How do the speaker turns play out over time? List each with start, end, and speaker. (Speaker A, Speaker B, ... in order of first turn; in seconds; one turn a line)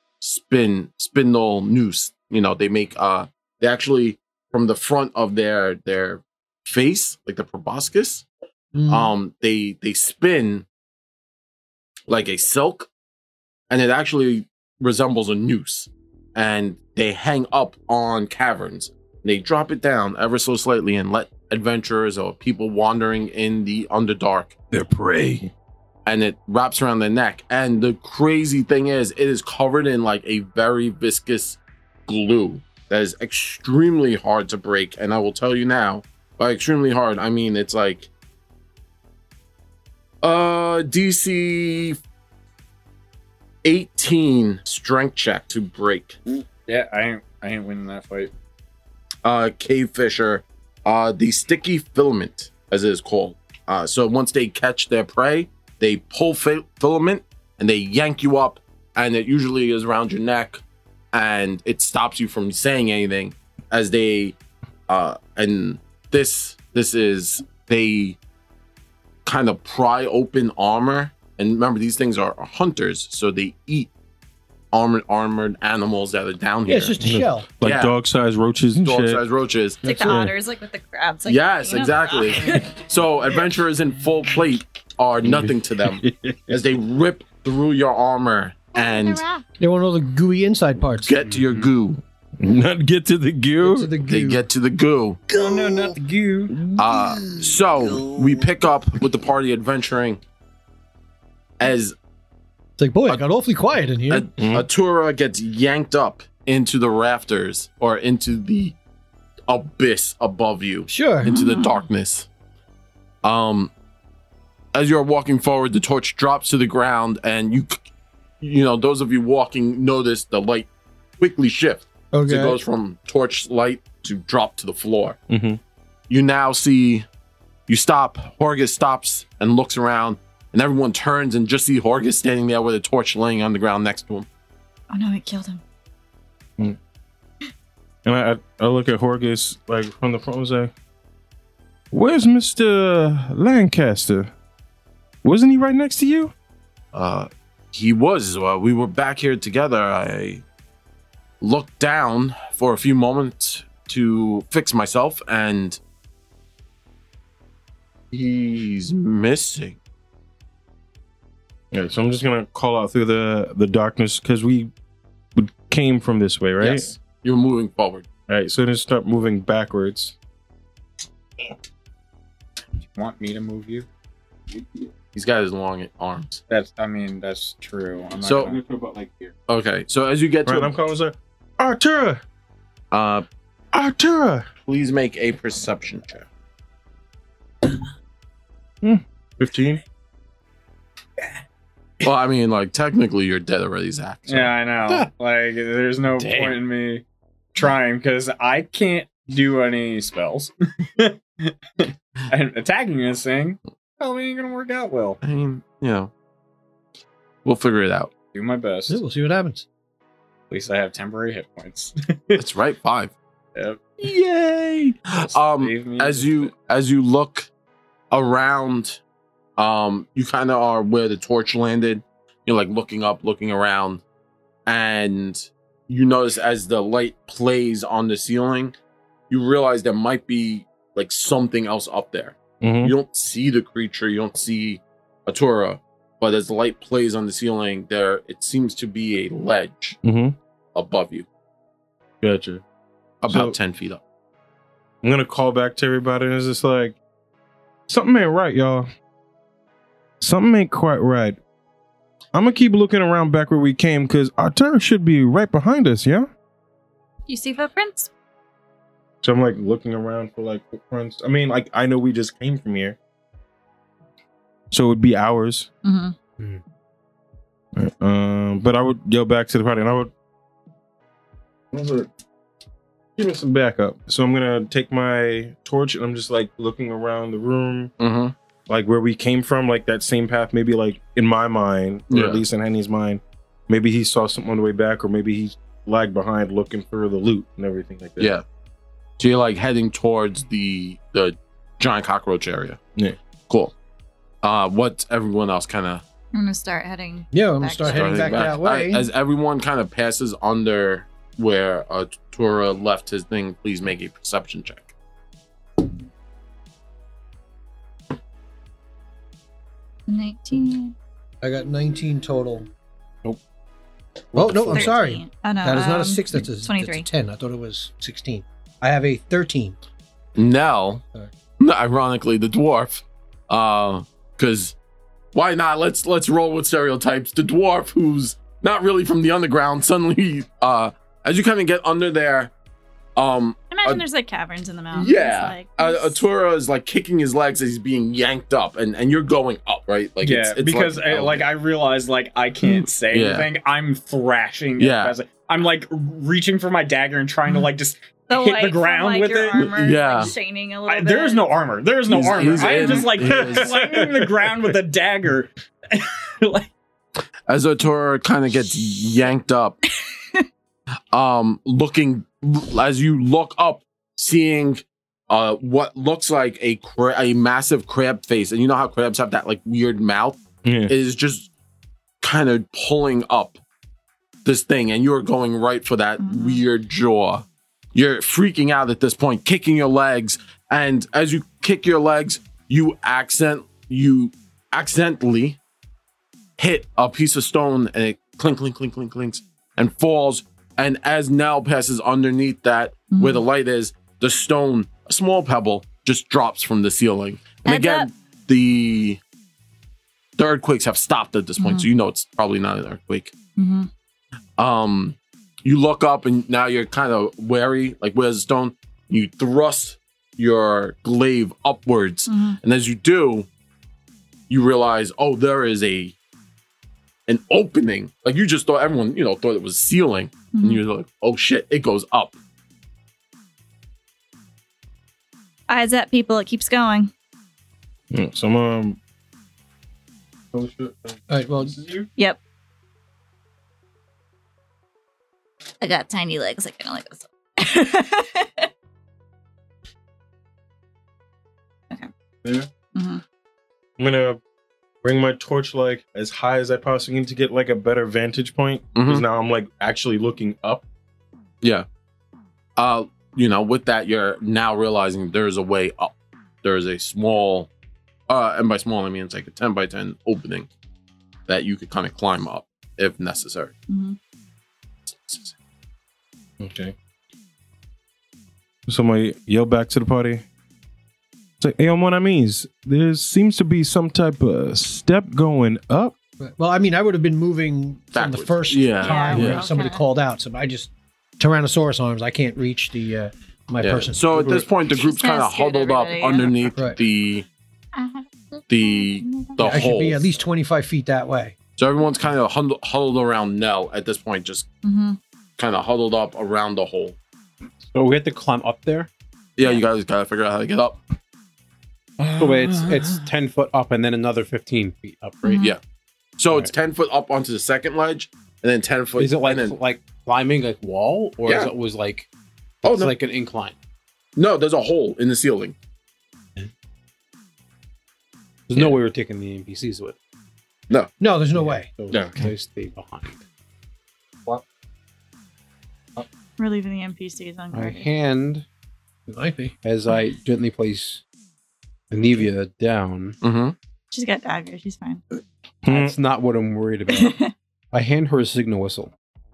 Speaker A: 0.2-8.2
Speaker B: 8.7-9.1
Speaker A: 8.9-10.7
Speaker A: 12.1-12.9
Speaker A: 13.7-24.5
Speaker C: 24.7-25.5
Speaker A: 26.1-38.1
Speaker A: 40.2-42.0
Speaker A: 43.6-46.2
Speaker D: 46.7-48.3
Speaker A: 49.2-60.6
Speaker A: 61.1-64.3
Speaker A: 64.9-68.2
Speaker A: 69.2-73.9
Speaker A: 74.7-76.9
Speaker B: 76.7-77.5
Speaker C: 77.0-79.2
Speaker A: 77.6-77.9
Speaker A: 78.8-79.8
Speaker E: 79.8-82.7
Speaker C: 80.0-80.3
Speaker A: 81.2-89.2
Speaker C: 85.3-86.6
Speaker B: 89.6-91.1
Speaker A: 91.0-92.0
Speaker F: 91.3-91.6
Speaker C: 92.4-93.9
Speaker B: 93.6-94.4
Speaker A: 94.0-95.2
Speaker D: 95.3-96.6
Speaker B: 95.3-96.0
Speaker B: 96.7-98.2
Speaker A: 96.7-100.2
Speaker A: 101.6-102.0
Speaker B: 102.8-104.3
Speaker A: 104.1-108.8
Speaker C: 104.4-104.7
Speaker A: 109.5-112.3
Speaker B: 110.9-111.4
Speaker E: 111.2-111.7
Speaker A: 113.2-113.7
Speaker A: 114.7-117.8
Speaker A: 118.4-120.7
Speaker A: 121.2-125.2
Speaker B: 122.1-122.6
Speaker C: 125.3-125.6
Speaker A: 126.1-127.1
Speaker A: 127.7-134.3
Speaker E: 134.9-135.6
Speaker C: 138.0-140.7
Speaker C: 141.9-144.3
Speaker C: 145.2-146.3
Speaker A: 146.9-150.4
Speaker A: 151.4-155.8
Speaker A: 158.1-159.8
Speaker C: 161.7-164.7
Speaker C: 165.3-166.9
Speaker A: 166.6-168.0
Speaker C: 168.3-170.1
Speaker D: 172.8-173.9
Speaker A: 175.1-176.4
Speaker D: 176.5-178.8
Speaker A: 178.2-178.6
Speaker C: 178.6-179.3
Speaker A: 179.5-180.7
Speaker C: 180.4-182.2
Speaker A: 182.9-183.2
Speaker C: 183.7-184.4
Speaker A: 184.7-186.2
Speaker C: 188.8-189.8
Speaker A: 192.0-194.5
Speaker D: 194.3-197.0
Speaker F: 196.2-196.6
Speaker D: 197.5-205.2
Speaker A: 205.2-206.1
Speaker A: 207.4-208.1
Speaker D: 208.3-209.0
Speaker B: 208.9-209.6
Speaker D: 210.5-212.4
Speaker A: 212.3-213.1
Speaker D: 213.6-213.8
Speaker A: 214.0-217.5
Speaker D: 215.2-216.5
Speaker A: 218.1-219.0
Speaker A: 219.6-224.0
Speaker A: 224.7-228.7
Speaker A: 229.3-240.0
Speaker C: 232.6-232.9
Speaker C: 240.0-240.3
Speaker A: 240.7-241.2
Speaker C: 242.2-242.6
Speaker A: 243.2-244.0
Speaker C: 243.3-243.6
Speaker C: 245.0-247.0
Speaker C: 247.9-248.9
Speaker C: 250.2-251.4
Speaker C: 252.3-256.3
Speaker E: 257.3-258.1
Speaker C: 259.2-263.0
Speaker C: 264.7-265.7
Speaker E: 265.8-266.1
Speaker C: 267.8-270.1
Speaker C: 271.7-272.1
Speaker C: 273.2-277.9
Speaker A: 278.0-278.3
Speaker C: 278.7-288.3
Speaker A: 282.1-282.4
Speaker A: 288.2-288.4
Speaker A: 289.2-292.8
Speaker A: 293.5-293.7
Speaker A: 294.4-296.0
Speaker E: 296.3-298.5
Speaker B: 297.3-299.1
Speaker A: 297.9-304.9
Speaker E: 310.1-310.9
Speaker B: 311.4-312.7
Speaker C: 314.3-314.9
Speaker B: 314.3-319.8
Speaker E: 314.7-317.1
Speaker A: 320.4-321.0
Speaker A: 321.6-324.7
Speaker A: 325.3-332.5
Speaker A: 333.1-334.0
Speaker E: 333.7-336.2
Speaker A: 334.9-341.5
Speaker D: 340.2-349.7
Speaker A: 342.7-343.5
Speaker A: 344.8-345.1
Speaker E: 348.3-351.6
Speaker A: 349.5-350.3
Speaker D: 350.9-356.7
Speaker A: 352.1-353.8
Speaker E: 352.2-353.1
Speaker C: 353.2-354.5
Speaker A: 357.5-359.8
Speaker A: 361.1-371.5
Speaker C: 370.6-370.9
Speaker A: 372.2-373.6
Speaker A: 374.4-385.6
Speaker E: 376.2-376.6
Speaker A: 386.6-399.2
Speaker E: 393.1-393.4
Speaker E: 397.6-398.1
Speaker A: 400.4-403.3
Speaker E: 401.6-401.9
Speaker E: 403.6-403.9
Speaker A: 404.6-413.5
Speaker E: 412.3-412.6
Speaker A: 414.5-416.1
Speaker A: 417.3-422.4
Speaker E: 420.5-420.8
Speaker E: 425.7-427.1
Speaker C: 428.1-429.0
Speaker C: 430.5-432.1
Speaker B: 431.3-431.8
Speaker E: 435.8-438.7
Speaker E: 442.9-443.2
Speaker C: 444.0-444.4
Speaker C: 445.0-450.8
Speaker A: 448.9-449.2
Speaker A: 452.8-457.7
Speaker A: 458.3-460.7
Speaker A: 461.5-463.7
Speaker E: 463.9-464.2
Speaker A: 465.1-465.5
Speaker C: 466.6-466.9
Speaker C: 468.9-470.4
Speaker C: 471.6-476.1
Speaker B: 476.4-484.5
Speaker A: 478.1-479.7
Speaker E: 479.0-480.0
Speaker A: 483.8-487.4
Speaker E: 484.9-486.6
Speaker E: 487.9-489.6
Speaker A: 488.7-490.2
Speaker B: 489.6-491.6
Speaker A: 491.8-494.7
Speaker E: 494.8-495.2
Speaker A: 495.6-497.1
Speaker F: 497.9-499.1
Speaker A: 499.6-501.0
Speaker D: 502.2-503.3
Speaker F: 502.4-505.6
Speaker E: 505.4-505.7
Speaker A: 505.4-505.8
Speaker A: 506.4-509.8
Speaker F: 509.2-512.3
Speaker A: 511.4-511.7
Speaker A: 512.8-513.1
Speaker F: 512.8-513.7
Speaker A: 514.4-515.7
Speaker F: 518.7-520.1
Speaker B: 521.2-521.9
Speaker F: 521.5-523.4
Speaker A: 522.1-522.5
Speaker E: 526.6-528.0
Speaker F: 527.7-528.6
Speaker B: 529.3-529.7
Speaker F: 529.8-531.2
Speaker F: 532.1-533.4
Speaker A: 533.4-533.7
Speaker E: 534.1-535.2
Speaker C: 535.8-536.1
Speaker F: 535.9-537.4
Speaker E: 537.1-537.5
Speaker F: 537.9-539.1